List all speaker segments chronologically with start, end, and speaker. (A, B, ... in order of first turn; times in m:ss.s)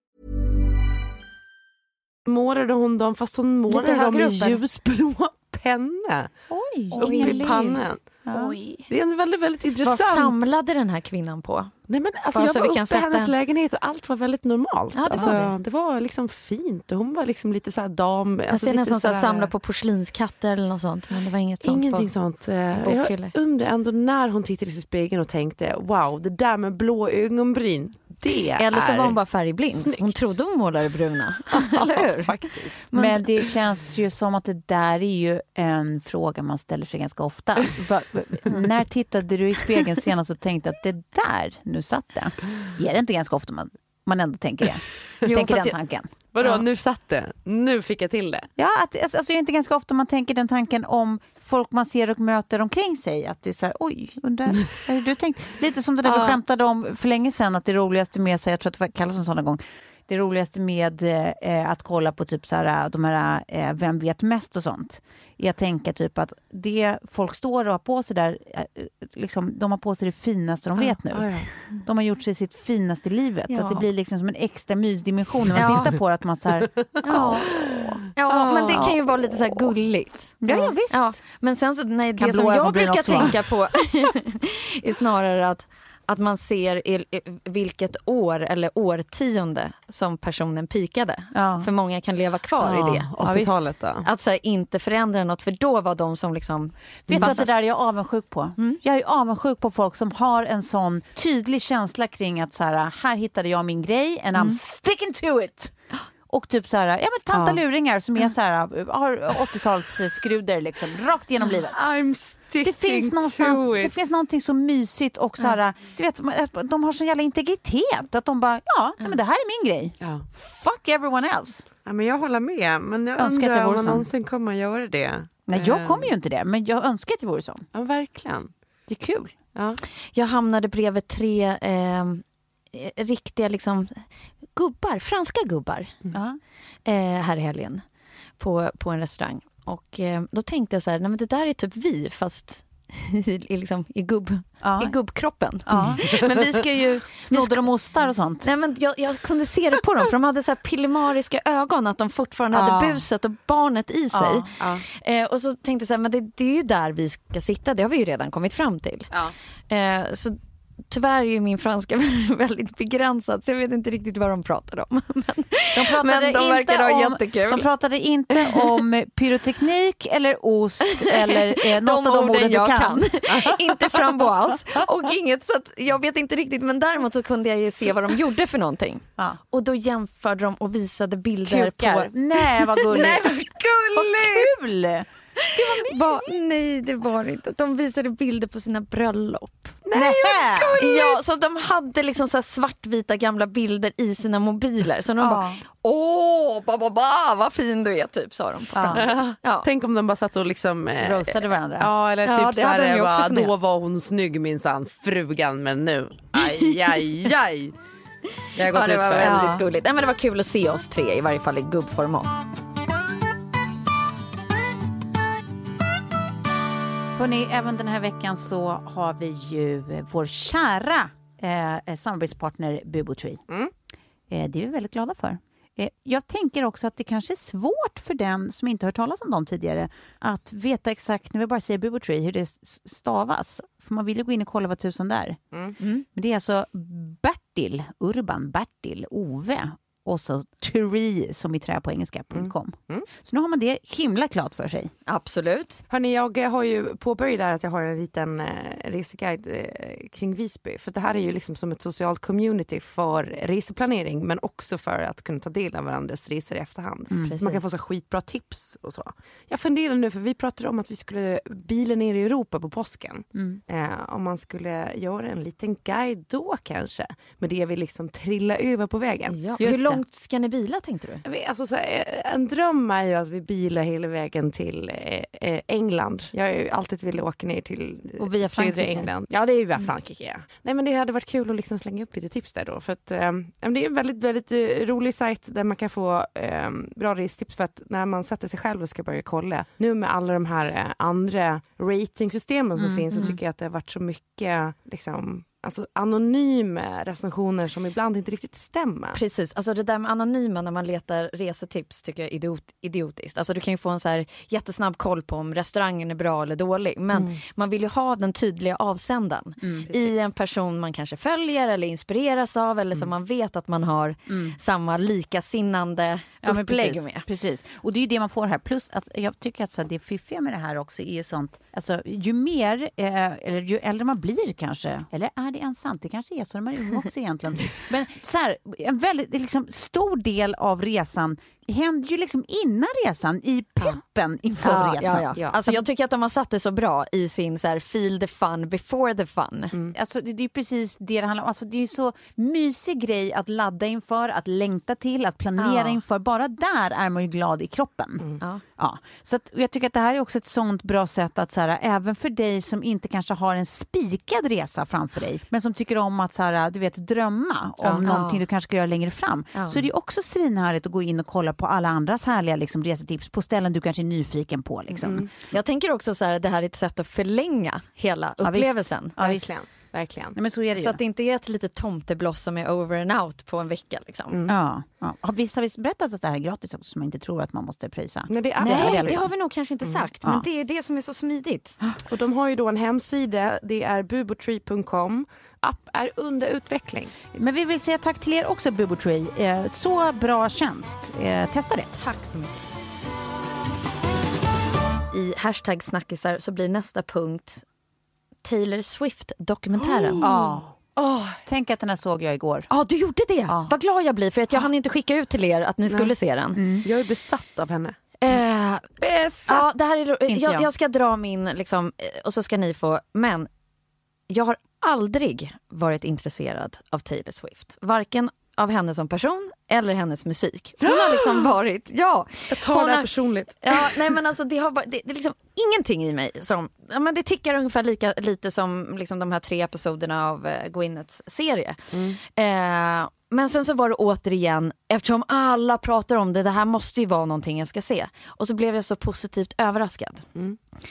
0:02.3-0:06.3 A
0:03.7-0:04.6 B
0:06.5-0:08.5 C
0:06.9-0:07.6 B
0:07.0-0:08.0 A
0:08.3-0:08.8 B
0:08.9-0:10.5 A
0:09.8-0:11.7 B
0:11.9-0:19.5 A
0:12.3-0:13.3 B
0:15.0-0:15.5 B
0:18.5-0:22.1 B
0:21.6-0:29.2 A
0:22.7-0:23.3 B
0:28.6-0:33.3 B
0:29.7-0:30.3 A
0:31.5-0:32.8 A
0:32.9-0:46.6 C
0:45.2-0:45.8 B
0:46.3-0:48.5 A
0:48.6-1:18.1 C
0:56.0-0:56.4 A
1:10.8-1:11.5 A
1:13.5-1:13.8 B
1:15.5-1:16.0 B
1:17.0-1:17.6 B
1:18.2-1:33.1 B
1:18.3-1:18.9 A
1:18.7-1:19.3 C
1:20.4-1:21.2 C
1:22.2-1:23.4 C
1:31.3-1:31.7 C
1:32.6-1:34.0 A
1:33.2-1:33.6 C
1:34.0-1:37.5 B
1:37.1-1:45.7 C
1:37.1-1:37.4 A
1:46.3-1:51.8 C
1:47.3-1:47.6 A
1:51.5-1:53.9 A
1:52.6-2:01.7 C
2:00.0-2:00.3 A
2:01.9-2:06.1 A
2:03.2-2:04.1 C
2:05.5-2:07.6 C
2:07.7-2:08.5 A
2:08.9-2:09.3 C
2:09.6-2:09.8 A
2:10.1-2:15.9 B
2:16.1-2:16.4 C
2:16.9-2:17.8 B
2:18.4-2:27.7 B
2:24.6-2:24.9 C
2:25.7-2:26.2 C
2:27.2-2:28.5 C
2:28.4-2:39.1 B
2:32.5-2:33.0 C
2:34.1-2:34.5 C
2:39.7-2:40.4 B
2:40.9-2:47.7 B
2:45.7-2:54.2 C
2:51.0-3:03.4 B
3:01.4-3:03.4 C
3:02.9-3:04.5 A
3:04.0-3:06.2 C
3:05.4-3:09.8 B
3:09.8-3:11.2 A
3:10.0-3:10.8 C
3:10.8-3:19.7 B
3:15.2-3:15.6 C
3:18.8-3:19.0 C
3:18.9-3:27.7 A
3:21.0-3:21.9 C
3:22.2-3:23.5 B
3:26.4-3:26.7 B
3:28.6-3:29.5 A
3:28.7-3:32.3 B
3:29.2-3:29.6 C
3:37.2-3:43.4 C
3:44.3-3:55.4 C
3:55.8-3:56.0 B
3:56.2-4:04.9 C
4:02.3-4:03.1 A
4:05.1-4:05.8 B
4:05.9-4:29.4 A
4:17.1-4:17.4 C
4:17.2-4:17.6 B
4:23.4-4:23.6 C
4:29.3-4:31.2 B
4:29.6-4:30.0 C
4:31.2-4:59.2 A
4:38.2-4:39.1 C
4:52.8-4:53.4 C
4:59.1-5:17.2 B
5:09.6-5:09.9 C
5:14.3-5:14.6 C
5:16.4-5:35.8 C
5:34.6-5:39.8 B
5:39.9-6:05.3 C
5:45.6-5:46.0 B
5:57.8-5:58.4 B
5:59.5-5:59.8 B
6:05.0-6:05.3 A
6:05.4-6:09.2 B
6:08.4-6:11.0 C
6:09.2-6:10.4 A
6:10.8-6:14.4 B
6:14.3-6:14.6 A
6:14.5-6:19.4 C
6:18.3-6:19.2 A
6:18.6-6:21.8 B
6:22.1-6:27.1 A
6:27.3-6:32.0 C
6:31.9-6:32.5 B
6:35.1-6:37.6 B
6:38.4-6:40.2 B
6:39.8-6:41.4 A
6:40.2-6:40.7 C
6:41.5-6:42.7 C
6:42.7-6:46.6 B
6:43.5-6:43.7 C
6:46.6-6:46.8 C
6:46.8-6:48.0 A
6:48.2-6:48.9 B
6:49.0-6:49.6 A
6:49.5-6:53.5 B
6:50.3-6:50.7 C
6:54.3-7:03.1 B
7:02.5-7:04.1 A
7:03.6-7:20.3 B
7:11.9-7:12.2 A